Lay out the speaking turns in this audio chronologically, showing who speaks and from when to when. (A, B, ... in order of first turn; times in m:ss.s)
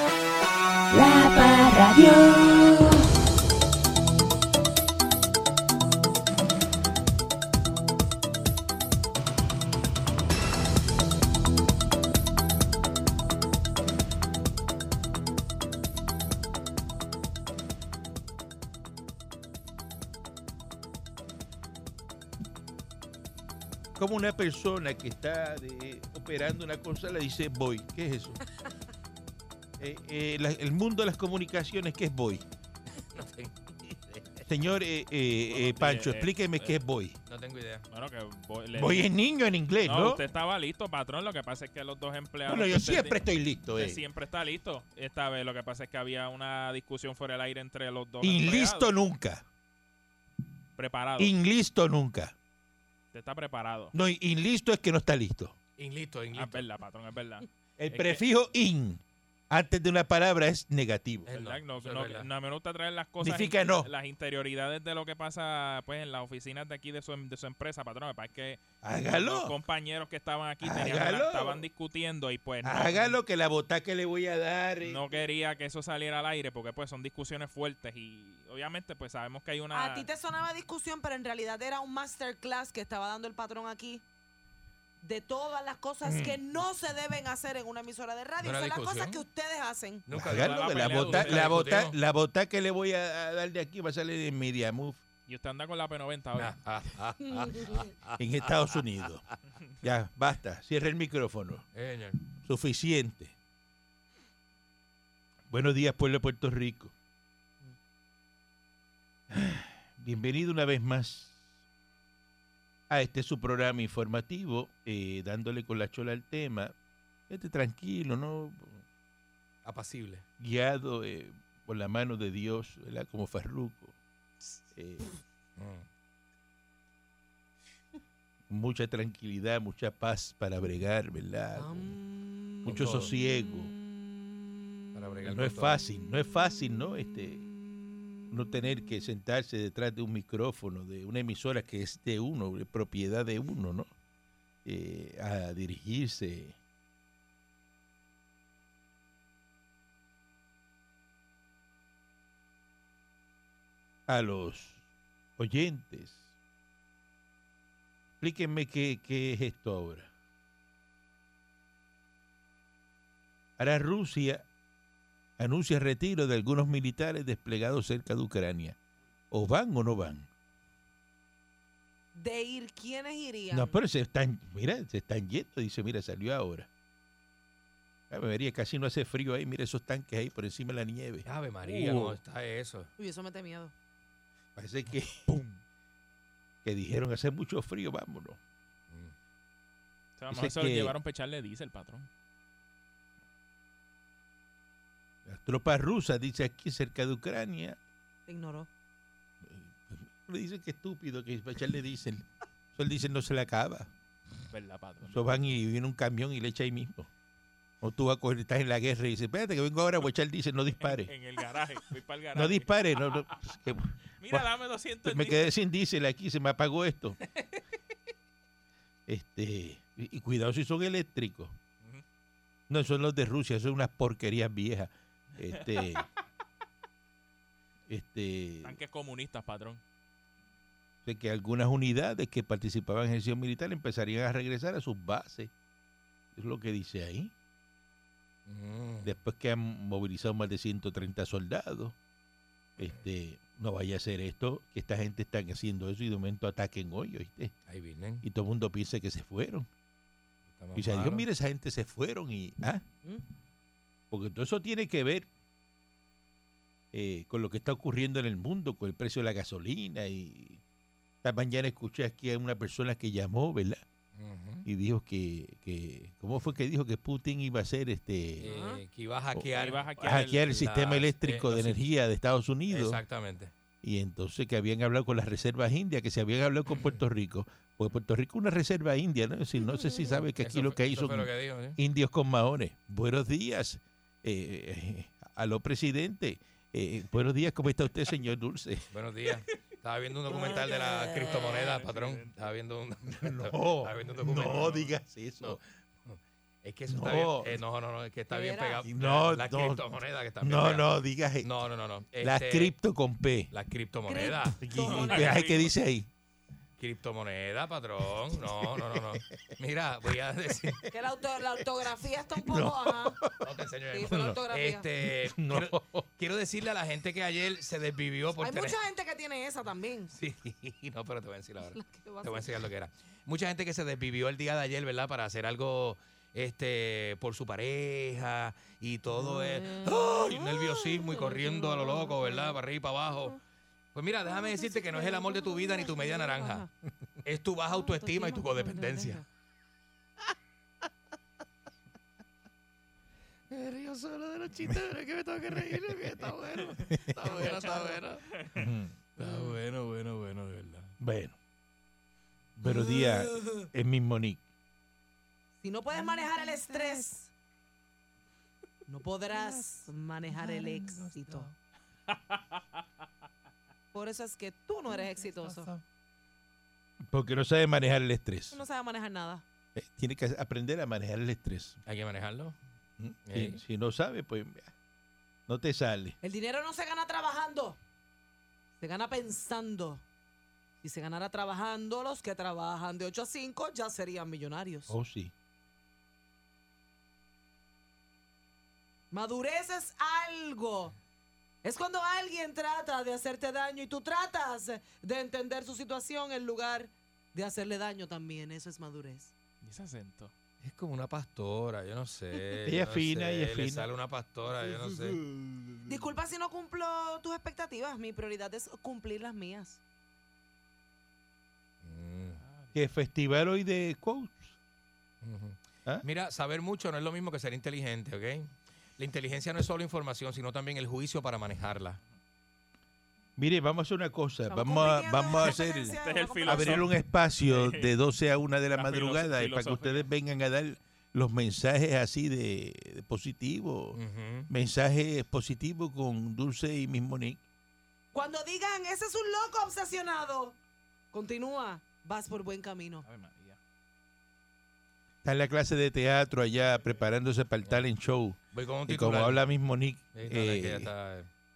0:00.9-0:03.0 A
0:24.0-0:28.4 B
0:29.8-0:32.4 B
0:33.0-0:34.4 C
0:34.5-0:37.2 B
0:35.5-0:36.7 D
0:37.3-0:37.9 C
0:37.9-0:39.1 D
0:38.7-0:40.2 B
0:39.8-0:43.2 D
0:42.5-0:44.0 B
0:43.7-0:48.9 D
0:48.2-0:49.4 B
0:50.8-0:51.3 D
0:51.2-0:52.4 B
0:53.1-0:53.9 D
0:53.9-0:55.6 B
0:55.8-0:56.7 C
0:56.3-0:58.2 D
0:57.8-1:01.3 B
1:01.3-1:02.3 C
1:01.3-1:13.2 D
1:03.2-1:03.9 B
1:08.8-1:09.5 B
1:10.6-1:11.6 B
1:12.6-1:15.2 B
1:14.8-1:20.1 D
1:19.7-1:24.0 E
1:25.0-1:30.0 E
1:26.0-1:26.4 B
1:28.4-1:29.2 C
1:30.1-1:32.0 C
1:30.1-1:35.0 B
1:30.2-1:31.6 D
1:35.3-1:36.6 D
1:36.4-1:38.2 C
1:38.2-1:39.2 B
1:39.8-1:41.7 B
1:41.7-1:42.2 C
1:42.4-1:43.3 B
1:45.5-1:46.9 B
1:49.3-1:51.4 B
1:52.9-1:56.7 B
1:57.3-1:58.8 B
1:59.6-2:00.2 C
2:00.4-2:03.9 B
2:04.8-2:05.0 B
2:05.6-2:05.9 C
2:08.5-2:12.0 B
2:11.6-2:12.0 E
2:12.6-2:13.7 B
2:12.7-2:13.1 C
2:14.9-2:15.8 C
2:15.2-2:17.5 B
2:18.3-2:23.9 B
2:24.6-2:26.6 B
2:34.1-2:34.8 B
2:35.4-2:36.3 B
2:38.2-2:40.1 B
2:43.6-2:44.5 B
2:45.4-2:48.8 B
2:49.3-2:50.3 B
2:52.2-2:53.8 E
2:53.5-2:56.7 B
2:58.1-3:02.2 B
3:01.3-3:02.9 C
3:03.0-3:03.7 E
3:04.6-3:05.6 B
3:06.6-3:08.4 B
3:10.2-3:12.1 D
3:10.3-3:10.9 B
3:15.3-3:17.8 B
3:18.3-3:18.7 E
3:19.4-3:23.9 B
3:24.5-3:25.3 D
3:25.1-3:27.1 B
3:27.8-3:31.1 B
3:30.8-3:33.4 D
3:32.3-3:34.5 B
3:34.2-3:35.5 D
3:35.0-3:37.2 B
3:39.1-3:41.6 B
3:42.7-3:46.1 B
3:45.5-3:46.0 D
3:47.9-3:48.8 B
3:48.6-3:49.8 D
3:51.0-3:55.5 B
3:56.4-3:57.3 B
3:58.5-3:59.1 C
3:59.0-4:02.0 B
4:02.8-4:07.5 B
4:07.7-4:08.2 C
4:08.2-4:09.7 B
4:10.6-4:11.3 C
4:10.8-4:12.8 B
4:14.1-4:15.3 B
4:16.9-4:20.6 B
4:21.2-4:23.8 B
4:24.1-4:24.7 C
4:24.7-4:28.5 B
4:28.4-4:31.8 C
4:28.4-4:28.8 E
4:29.6-4:30.6 D
4:30.0-4:33.0 B
4:32.7-4:33.5 C
4:33.8-4:48.9 B
4:36.7-4:37.0 C
4:40.4-4:41.8 C
4:48.9-4:54.8 C
4:50.6-4:51.6 E
4:51.4-4:52.3 D
4:53.2-4:55.6 B
4:55.4-5:00.9 C
4:56.9-4:57.6 B
4:58.3-4:58.9 E
4:58.9-4:59.8 B
5:00.4-5:01.5 B
5:01.4-5:02.7 C
5:02.2-5:03.5 B
5:03.5-5:04.6 C
5:04.1-5:05.4 E
5:04.6-5:06.1 B
5:04.8-5:05.7 D
5:06.8-5:10.8 C
5:08.6-5:09.5 B
5:10.6-5:10.8 B
5:10.9-5:13.2 E
5:12.4-5:13.4 B
5:13.4-5:18.8 C
5:13.9-5:14.9 E
5:14.1-5:14.4 B
5:15.0-5:16.0 B
5:18.4-5:20.1 E
5:20.1-5:33.4 C
5:21.7-5:22.5 E
5:29.2-5:32.5 E
5:34.0-5:36.7 C
5:34.6-5:36.7 E
5:37.2-5:39.2 C
5:37.7-5:39.2 E
5:43.5-5:48.3 C
5:46.9-5:47.4 B
5:47.3-5:48.0 E
5:48.3-5:48.6 D
5:48.6-5:48.9 B
5:49.2-5:50.9 C
5:51.0-5:51.4 B
5:52.6-5:54.4 B
5:52.6-5:53.7 E
5:55.6-5:57.3 E
5:58.9-6:01.5 E
6:00.4-6:01.2 B
6:02.1-6:02.4 D
6:03.9-6:05.7 E
6:05.4-6:05.8 B
6:07.1-6:08.6 B
6:08.5-6:09.4 E
6:09.8-6:11.8 B
6:11.9-6:12.6 C
6:13.0-6:14.7 B
6:13.3-6:13.6 C
6:15.5-6:16.2 B
6:16.2-6:17.8 E
6:18.8-6:20.0 E
6:20.8-6:24.9 E
6:24.9-6:25.3 B
6:29.1-6:31.0 E
6:31.6-6:39.3 E
6:39.6-6:40.3 D
6:40.6-6:45.2 C
6:42.6-6:43.9 B
6:45.9-6:49.8 E
6:51.8-6:52.4 C
6:52.7-6:54.6 B
6:55.2-7:02.0 C
7:03.4-7:17.4 B
7:04.5-7:06.9 E
7:06.0-7:06.9 D
7:07.5-7:08.0 D
7:08.7-7:10.1 D
7:14.0-7:14.5 C
7:18.1-7:20.6 E
7:21.1-7:23.0 E
7:23.0-7:23.6 D
7:25.2-7:30.9 B
7:28.5-7:29.4 C
7:30.1-7:31.3 C